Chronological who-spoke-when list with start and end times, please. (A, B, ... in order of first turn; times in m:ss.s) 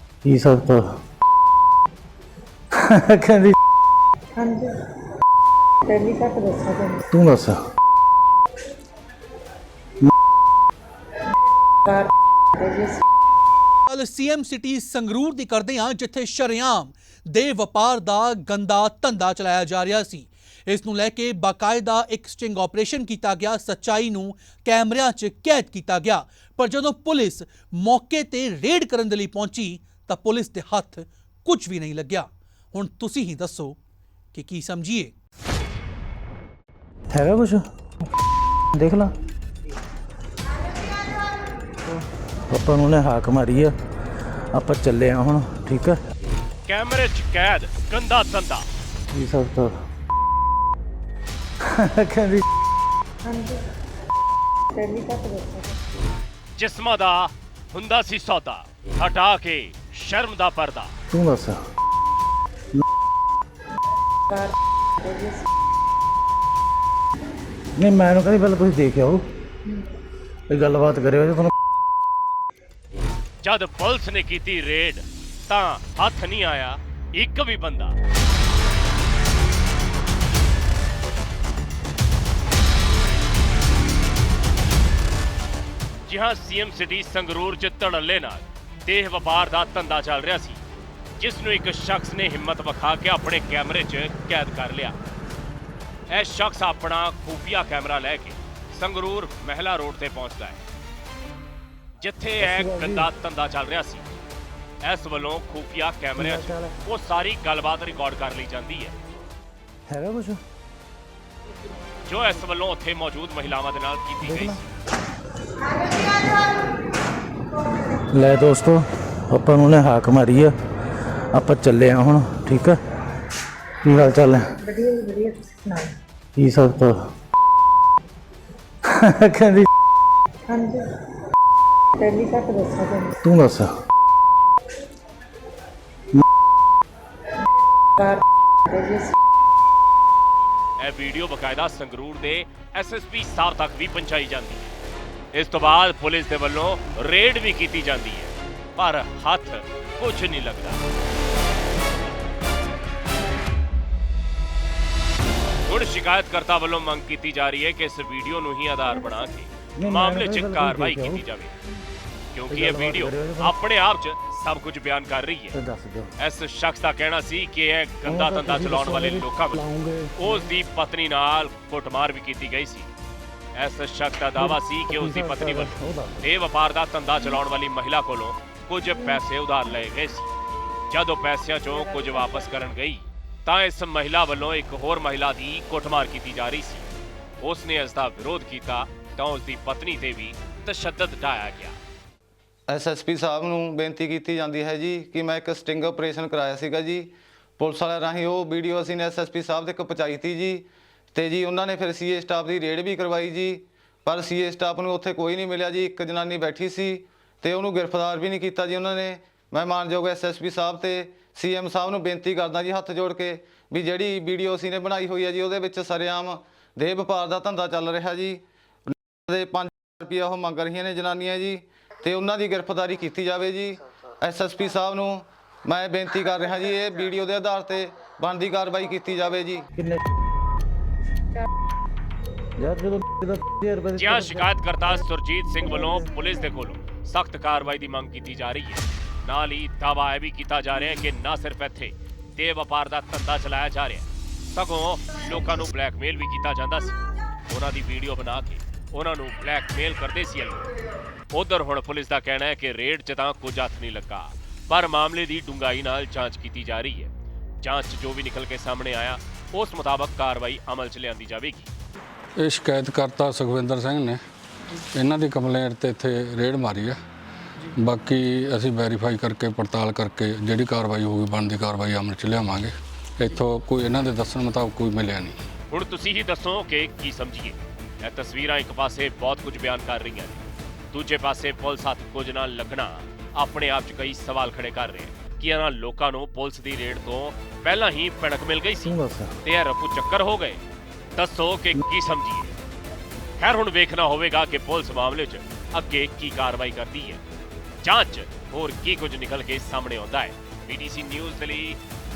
0:00.2-0:00.9 A
0:02.7-0:03.5 A
0:04.4-0:04.8 B
0:05.9-0:07.0 B
0:07.1-0:07.6 A
0:11.9-0:13.0 B
0:13.9-0:33.8 C
0:34.3-0:35.1 C
0:37.1-0:37.6 A
0:38.8-0:39.1 A
0:41.9-0:43.7 A
0:44.5-0:46.0 A
0:46.7-0:48.7 D
0:49.1-0:49.8 A
0:51.6-0:52.4 A
0:53.2-0:53.6 B
0:54.7-0:55.8 B
0:56.6-1:00.9 D
1:01.1-1:01.6 A
1:04.3-1:05.5 B
1:07.8-1:09.2 A
1:10.5-1:11.5 A
1:13.4-1:18.0 D
1:26.1-1:30.6 D
1:31.2-1:35.0 D
1:36.1-1:40.6 D
1:42.0-1:44.0 D
1:42.4-1:43.1 A
1:44.8-1:49.0 D
1:46.2-1:46.8 A
1:49.9-1:50.4 A
1:52.0-1:54.6 D
1:54.2-1:54.6 A
1:58.1-2:00.5 A
2:01.3-2:02.8 A
2:03.8-2:04.5 A
2:04.6-2:06.0 B
2:06.4-2:07.0 A
2:08.9-2:09.7 A
2:10.5-2:10.9 B
2:12.0-2:13.2 B
2:13.2-2:13.7 A
2:18.0-2:19.1 B
2:20.8-2:24.7 D
2:25.3-2:30.8 D
2:35.7-2:41.5 D
2:39.8-2:41.2 A
2:42.3-2:45.5 D
2:42.5-2:43.5 A
2:45.5-2:46.1 A
2:46.2-2:49.6 D
2:48.0-2:50.5 A
2:50.2-2:52.9 D
2:53.6-3:00.3 D
2:54.4-2:56.3 A
3:00.9-3:06.9 D
3:07.4-3:11.8 D
3:12.7-3:49.6 E
3:49.8-3:50.0 A
3:52.6-3:54.5 A
3:54.0-4:07.0 D
4:07.5-4:10.7 D
4:11.3-4:17.1 D
4:17.6-4:21.7 D
4:22.4-4:24.2 F
4:24.8-4:27.0 F
4:27.7-4:35.5 F
4:35.7-4:50.6 D
4:48.8-4:49.4 A
4:51.2-4:52.6 D
4:53.4-4:57.2 D
4:57.8-5:01.8 D